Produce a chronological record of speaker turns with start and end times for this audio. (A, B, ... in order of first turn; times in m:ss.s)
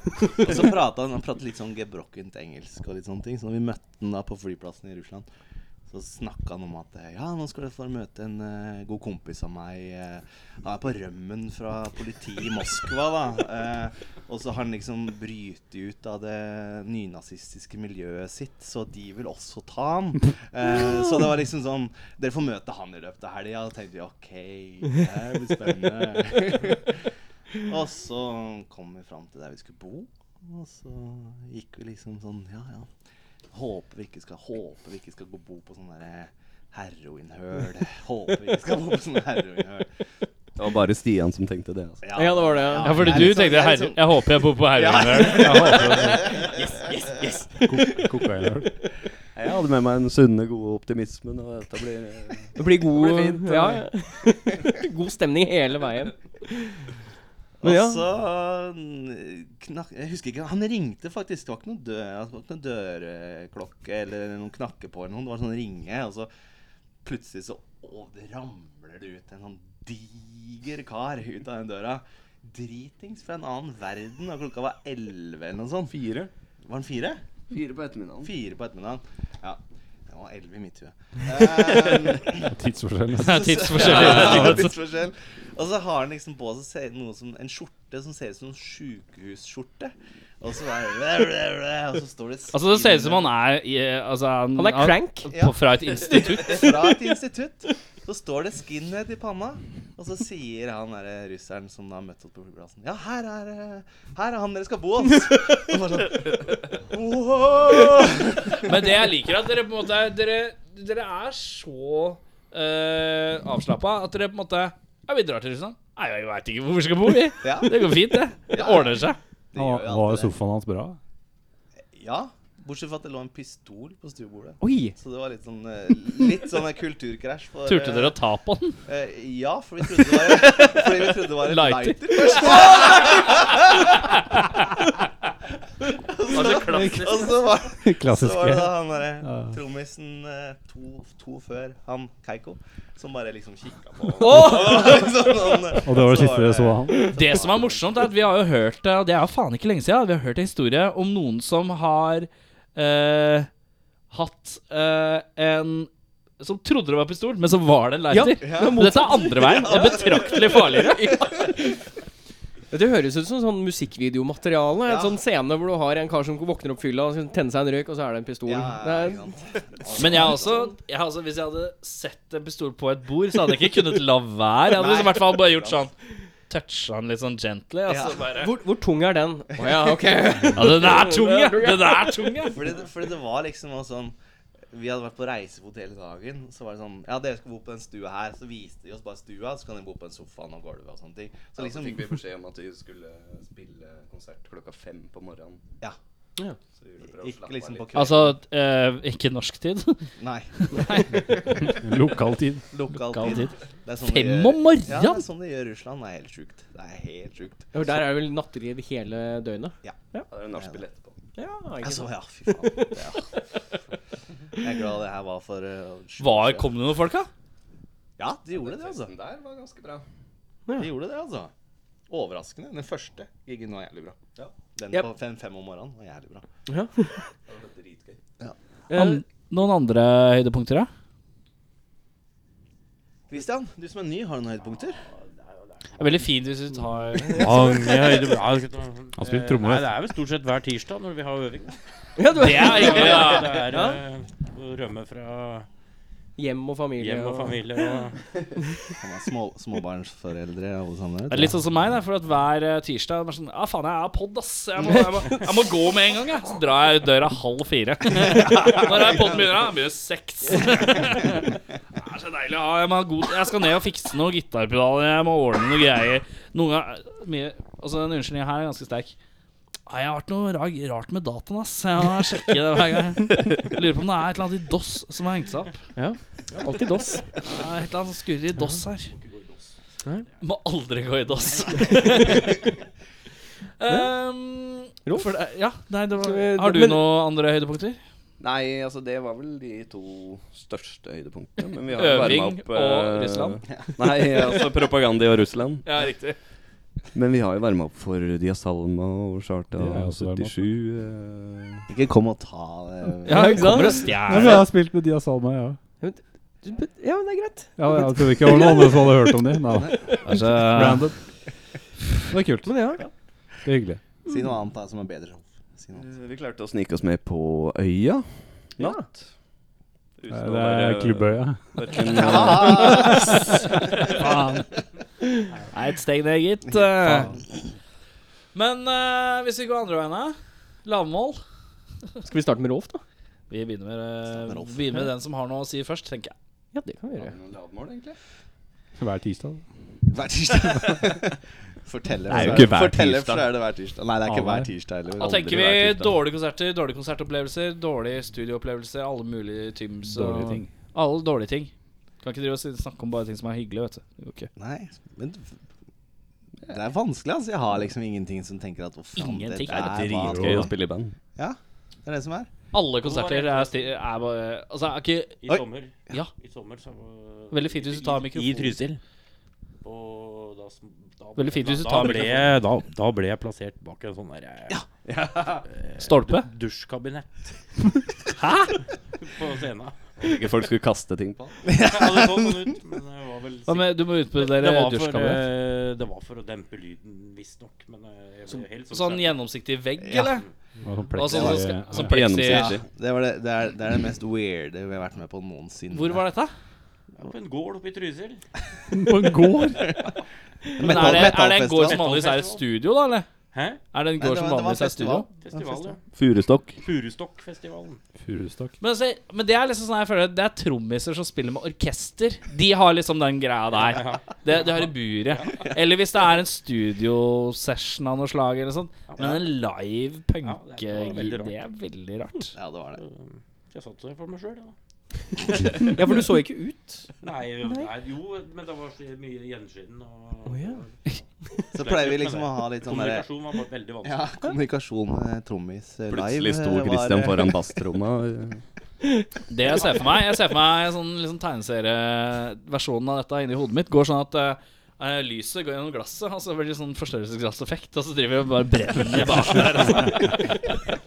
0:00.4-0:05.2 A
0:05.9-0:27.1 A
0:27.6-0:32.9 A
0:33.5-0:39.9 A
0:40.6-0:42.0 B
0:42.0-0:47.2 A
0:42.1-0:43.3 C
0:42.8-0:46.2 D
0:45.3-0:46.3 E
0:47.6-0:48.7 E
0:49.3-0:53.8 B
0:52.6-0:56.8 C
0:57.6-1:06.3 A
0:57.6-0:58.0 C
1:07.0-1:15.9 A
1:15.9-1:16.3 B
1:16.6-1:17.2 A
1:17.5-1:18.3 B
1:18.2-1:22.5 A
1:22.4-1:23.6 E
1:23.2-1:24.7 D
1:23.4-1:33.4 A
1:24.2-1:24.5 E
1:32.5-1:36.7 D
1:34.6-1:35.3 C
1:35.2-1:48.7 A
1:48.6-1:59.2 D
1:57.4-1:57.8 A
1:58.5-2:00.3 A
1:59.6-2:01.0 E
2:01.9-2:08.2 A
2:04.6-2:05.0 C
2:07.6-2:08.8 D
2:08.8-2:14.2 A
2:09.9-2:10.9 D
2:11.4-2:13.3 D
2:14.3-2:14.6 D
2:16.0-2:28.1 A
2:16.3-2:17.2 D
2:16.5-2:19.6 E
2:24.2-2:25.0 D
2:25.8-2:27.2 E
2:27.1-2:33.5 D
2:34.1-2:41.2 D
2:38.1-2:41.8 C
2:38.4-2:40.6 A
2:42.7-2:49.3 C
2:44.8-2:45.2 A
2:48.4-2:50.7 A
2:50.0-2:55.9 D
2:54.7-2:55.9 A
2:56.5-2:58.5 D
2:57.8-2:58.4 A
2:58.3-3:02.6 C
3:00.5-3:02.6 D
3:02.4-3:04.1 A
3:04.7-3:12.2 A
3:11.6-3:15.6 B
3:16.8-3:18.0 B
3:17.1-3:18.4 A
3:17.9-3:20.0 D
3:20.2-3:21.7 A
3:20.6-3:21.8 D
3:21.6-3:22.6 E
3:22.7-3:27.7 A
3:22.9-3:25.0 D
3:25.0-3:25.2 C
3:27.7-3:30.2 C
3:30.3-3:31.2 B
3:30.5-3:30.8 A
3:31.4-3:33.4 C
3:31.8-3:33.3 A
3:34.6-3:36.7 A
3:36.2-3:37.3 D
3:38.2-3:39.1 A
3:38.5-3:40.0 B
3:40.8-3:41.5 A
3:42.1-3:46.4 A
3:46.7-3:47.1 C
3:47.5-3:48.2 B
3:48.9-3:49.2 C
3:48.9-3:50.9 D
3:53.3-3:55.0 A
3:55.3-3:56.2 F
3:56.0-3:57.8 D
3:57.4-4:01.7 F
3:59.2-3:59.9 E
4:02.2-4:04.0 C
4:02.4-4:03.6 D
4:02.5-4:05.7 F
4:06.4-4:08.1 C
4:07.0-4:08.2 F
4:09.0-4:11.5 A
4:11.3-4:29.1 D
4:29.9-4:35.8 D
4:36.0-4:37.2 C
4:37.4-4:39.1 D
4:39.2-4:39.7 F
4:40.4-4:42.6 D
4:43.8-4:48.0 D
4:46.2-4:47.1 C
4:48.4-4:55.8 B
4:51.9-4:53.6 D
4:55.8-4:56.4 D
4:57.1-5:01.8 B
4:59.8-5:00.6 E
5:01.9-5:03.9 A
5:03.2-5:04.6 D
5:03.3-5:04.5 C
5:04.2-5:05.8 E
5:06.0-5:09.5 C
5:07.8-5:11.2 E
5:10.2-5:11.1 D
5:12.3-5:12.9 E
5:12.6-5:13.0 C
5:13.6-5:14.0 E
5:14.2-5:16.1 A
5:16.0-5:19.3 B
5:18.8-5:19.1 C
5:20.2-5:23.2 B
5:20.3-5:21.8 E
5:22.2-5:23.4 A
5:22.4-5:22.8 E
5:22.8-5:23.3 D
5:24.0-5:24.6 D
5:25.7-5:27.4 D
5:28.5-5:31.4 D
5:32.2-5:33.0 C
5:33.5-5:36.3 D
5:34.3-5:35.0 A
5:36.7-5:37.4 C
5:37.2-5:38.2 B
5:39.0-5:39.6 E
5:40.1-5:45.5 A
5:42.3-5:43.0 E
5:42.3-5:43.5 B
5:44.2-5:44.7 E
5:45.2-5:46.2 B
5:45.2-5:54.5 D
5:50.0-5:50.7 E
5:54.6-5:55.5 A
5:56.6-6:00.8 A
5:59.2-6:00.6 D
5:59.7-6:01.1 B
6:01.4-6:02.5 A
6:02.7-6:05.4 D
6:03.0-6:04.0 F
6:05.4-6:09.0 F
6:05.4-6:06.2 A
6:07.5-6:08.9 D
6:09.8-6:14.8 F
6:11.4-6:12.5 D
6:15.1-6:15.4 B
6:15.4-6:17.8 F
6:16.0-6:16.5 D
6:18.4-6:18.7 D
6:19.2-6:20.5 F
6:20.2-6:21.6 B
6:21.6-6:22.8 A
6:21.8-6:29.4 F
6:23.6-6:25.4 D
6:28.5-6:30.4 D
6:30.0-6:30.4 A
6:30.2-6:30.5 F
6:30.8-6:32.2 E
6:31.1-6:32.8 D
6:31.3-6:31.6 A
6:31.9-6:32.8 B
6:32.4-6:36.2 A
6:35.9-6:36.5 D
6:37.2-6:38.4 F
6:38.9-6:39.9 E
6:39.8-6:40.1 A
6:40.8-6:42.0 A
6:40.8-6:43.3 D
6:40.9-6:42.6 F
6:43.5-6:43.8 F
6:43.9-6:45.3 D
6:44.2-6:45.9 A
6:45.4-6:46.0 F
6:46.1-6:46.8 B
6:46.8-6:48.0 F
6:48.2-6:48.7 E
6:48.8-7:02.5 D
6:53.7-6:55.6 F
6:59.1-6:59.4 F
7:00.4-7:01.6 F
7:02.5-7:03.0 A
7:03.0-7:04.7 F
7:05.8-7:07.9 C
7:07.2-7:11.0 F
7:10.4-7:10.8 C
7:11.7-7:13.3 A
7:11.7-7:14.5 F
7:14.0-7:17.8 A
7:16.1-7:18.6 B
7:19.5-7:30.8 D